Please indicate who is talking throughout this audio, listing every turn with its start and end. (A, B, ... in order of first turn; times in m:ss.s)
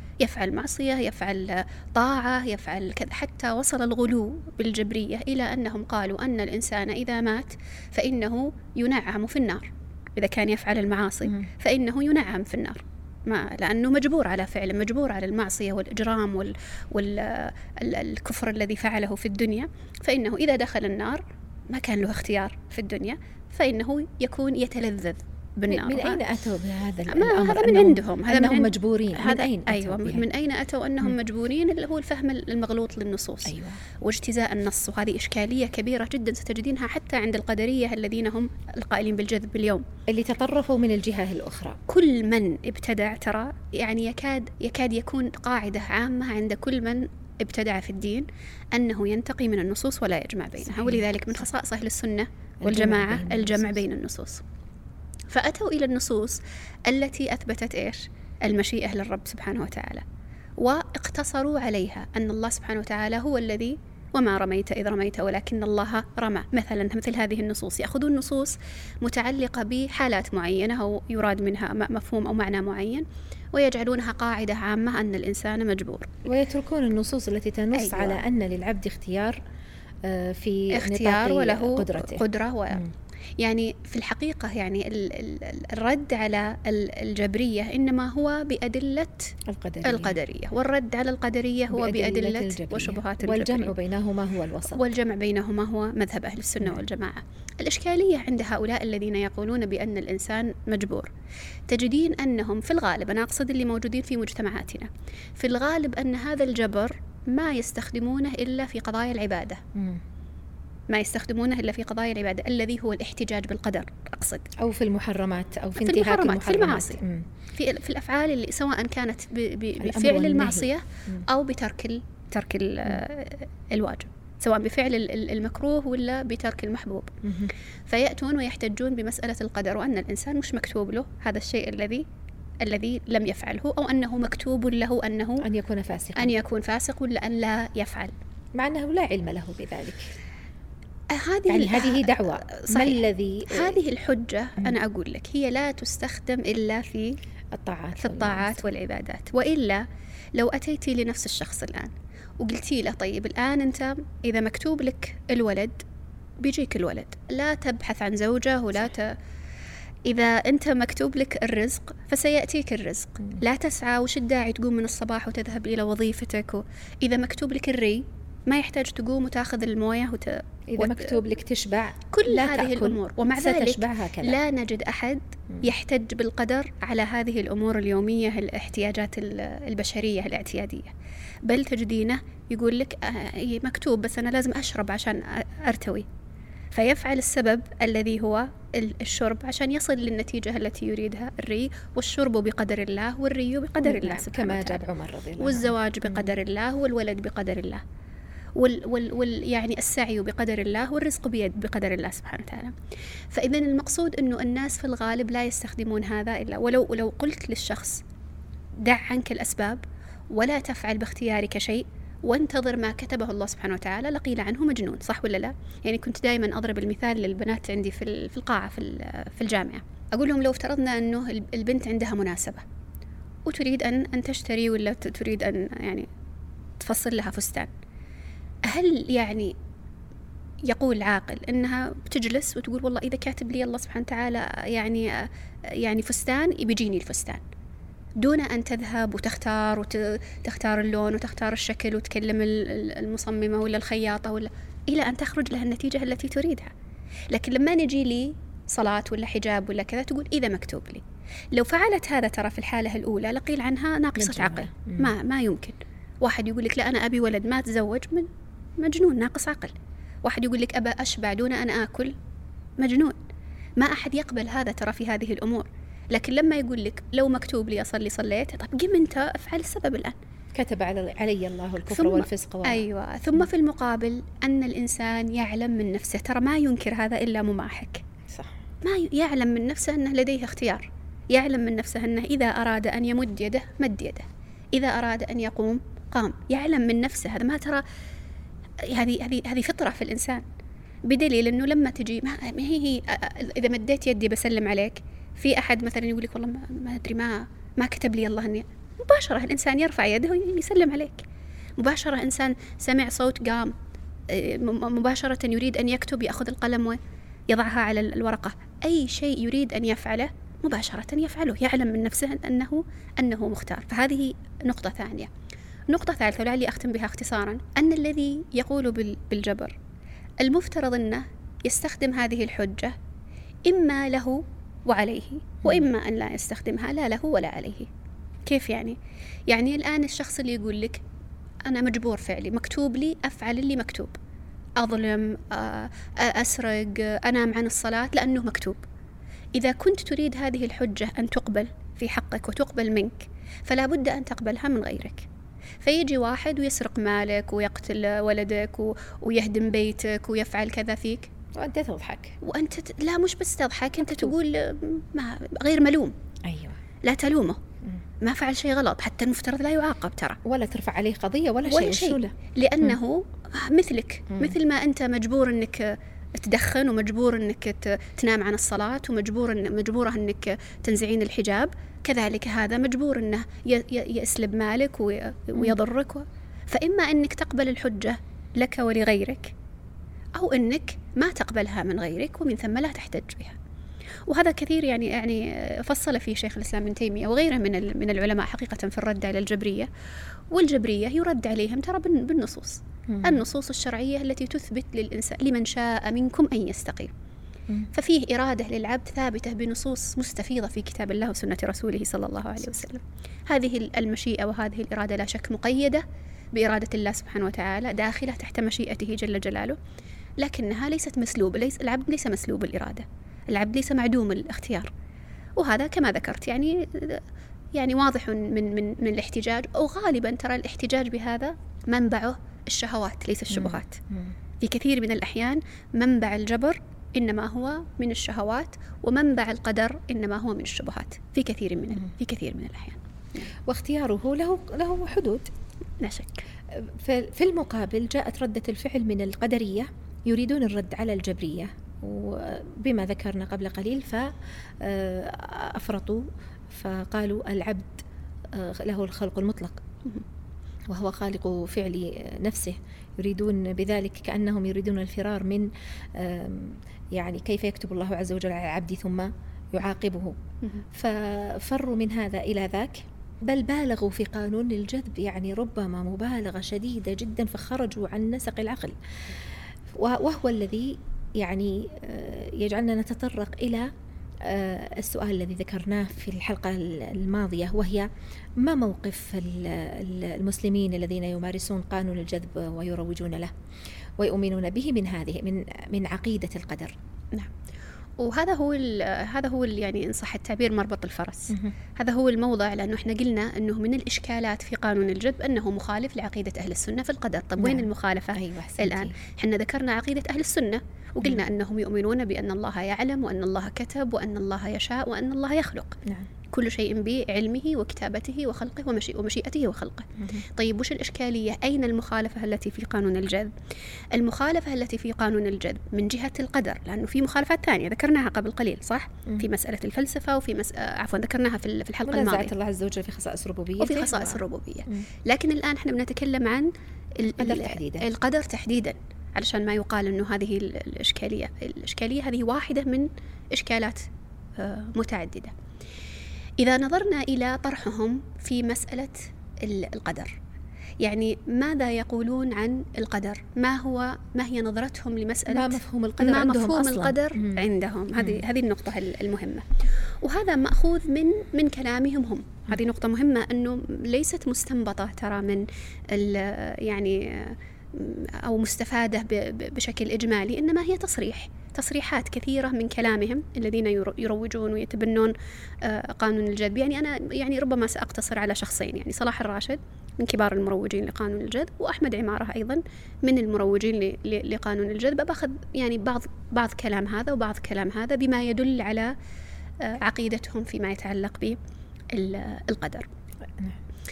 0:00.2-0:26.2 A
0:25.7-0:30.3 B
0:27.1-0:39.8 A
0:33.5-0:33.8 B
0:40.1-0:41.8 B
0:41.9-0:54.4 A
0:50.7-0:51.1 B
0:52.6-0:53.8 B
0:55.3-1:00.0 A
1:00.6-1:16.1 A
1:16.3-1:19.4 B
1:17.7-1:18.2 A
1:20.0-1:22.9 B
1:20.7-1:22.8 A
1:23.4-1:33.7 A
1:29.4-1:30.2 B
1:31.7-1:34.8 B
1:34.7-1:41.1 A
1:41.7-1:49.6 A
1:49.8-1:50.0 B
1:50.9-1:54.5 A
1:54.6-1:57.3 B
1:55.8-1:57.0 A
1:57.6-2:07.2 A
1:59.8-2:01.3 B
2:07.2-2:07.5 B
2:07.9-2:12.0 A
2:12.6-2:15.4 A
2:15.4-2:16.4 B
2:16.2-2:18.1 A
2:18.6-2:20.1 B
2:21.1-2:27.2 A
2:21.5-2:23.8 B
2:27.5-2:28.6 B
2:28.0-2:29.8 A
2:30.4-2:35.8 A
2:36.4-2:39.2 A
2:40.0-2:51.2 A
2:50.7-2:54.4 B
2:52.1-3:00.9 A
3:01.4-3:06.1 A
3:06.7-3:14.8 A
3:13.8-3:16.4 B
3:15.4-3:17.8 A
3:18.6-3:22.8 A
3:23.3-3:28.0 A
3:28.8-3:42.6 A
3:43.5-3:46.1 A
3:46.8-3:47.7 A
3:48.6-3:49.6 A
3:50.6-3:57.4 A
3:58.2-4:06.7 A
4:07.3-4:22.1 A
4:14.2-4:15.1 B
4:22.8-4:23.2 A
4:23.8-4:30.2 A
4:30.5-4:32.9 B
4:31.9-4:38.0 A
4:38.3-4:38.6 B
4:38.8-4:47.8 A
4:48.8-4:50.4 A
4:51.1-5:01.2 A
5:01.8-5:03.7 A
5:04.3-5:07.0 A
5:07.5-5:15.3 A
5:15.9-5:19.8 A
5:20.4-5:23.0 A
5:23.7-5:27.9 A
5:28.5-5:29.0 A
5:29.5-5:31.0 A
5:31.7-5:34.1 A
5:34.8-5:38.8 A
5:39.6-5:45.3 A
5:45.8-5:51.3 A
5:51.6-5:52.4 B
5:52.4-5:56.1 A
5:54.1-5:54.3 B
5:56.5-5:56.8 B
5:57.0-5:57.6 A
5:58.2-6:00.4 A
6:00.4-6:03.0 B
6:01.7-6:19.5 A
6:04.3-6:04.6 B
6:20.4-6:23.6 A
6:24.3-6:29.9 A
6:30.5-6:37.1 A
6:33.1-6:33.4 B
6:37.9-6:49.8 A
6:50.4-6:54.9 A
6:55.6-6:57.2 A
6:57.7-7:04.0 A
7:03.5-7:04.4 B
7:04.6-7:13.5 A
7:13.7-7:15.5 B
7:16.0-7:16.4 A
7:16.7-7:24.3 B
7:24.8-7:29.8 B
7:30.9-7:40.4 B
7:40.9-7:49.0 B
7:49.9-7:53.9 B
7:54.4-8:03.5 B
8:04.2-8:07.0 B
8:08.2-8:26.0 A
8:11.5-8:11.8 B
8:17.6-8:19.1 B
8:26.5-8:33.5 A
8:30.2-8:30.4 B
8:34.1-8:42.5 A
8:42.1-8:45.1 B
8:43.8-8:55.5 A
8:47.4-8:48.1 B
8:56.6-9:00.4 A
9:01.0-9:39.1 A
9:05.5-9:08.4 B
9:39.8-9:41.6 A
9:42.1-9:43.1 A